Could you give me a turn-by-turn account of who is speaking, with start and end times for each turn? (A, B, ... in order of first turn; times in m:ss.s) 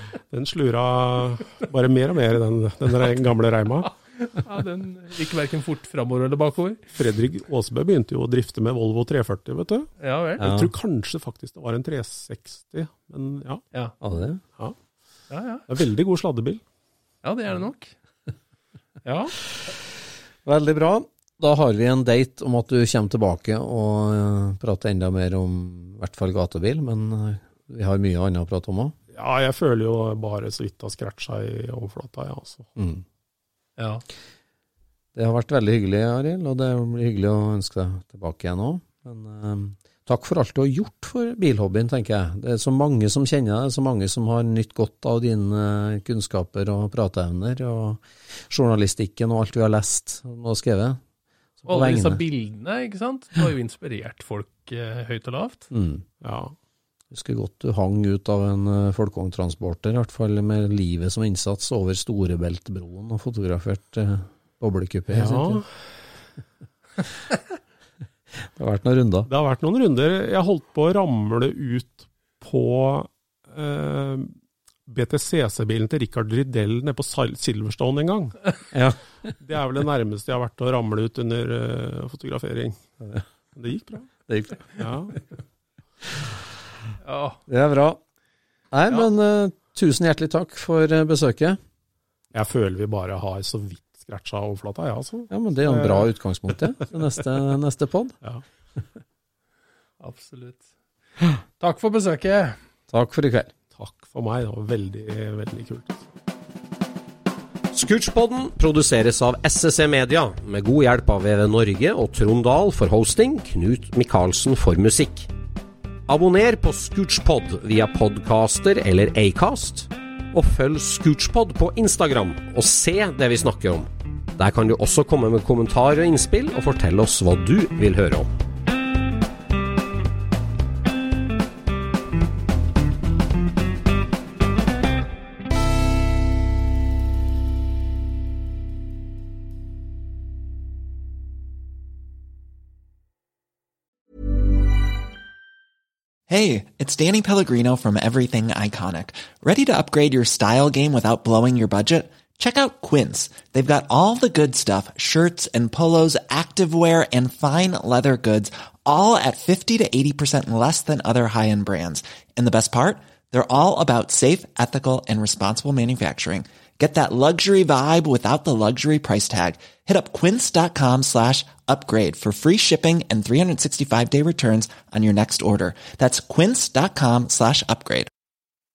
0:00.3-0:03.9 A
0:03.9-0:06.8 B
0:07.0-0:13.6 A
0:10.0-0:10.5 B
0:10.4-0:10.7 C
0:14.0-0:14.4 C
0:15.3-0:15.6 B
0:15.7-0:16.6 A
0:17.2-0:18.0 B
0:19.0-0:19.4 B
0:20.4-0:29.0 C
0:29.1-0:32.7 A
0:32.8-0:33.0 C
0:33.8-0:34.0 B
0:35.2-0:51.0 C
0:51.6-0:52.2 C
0:51.7-0:55.7 B
0:55.7-0:56.1 C
0:56.2-0:56.6 A
0:57.1-1:05.6 C
1:05.1-1:05.7 A
1:08.4-1:09.3 C
1:09.3-1:14.3 A
1:14.9-1:18.5 A
1:18.7-1:19.3 C
1:19.4-1:22.8 A
1:23.6-1:24.1 A
1:24.3-1:24.9 C
1:24.8-1:25.2 A
1:27.0-1:27.4 B
1:27.5-1:28.0 C
1:28.7-1:31.6 C
1:32.3-1:36.1 A
1:35.3-1:38.2 C
1:40.0-1:40.7 B
1:41.6-1:42.6 B
1:42.9-1:43.5 C
1:43.8-1:46.0 A
1:47.7-1:55.3 D
1:56.1-2:08.3 D
2:26.3-2:58.1 E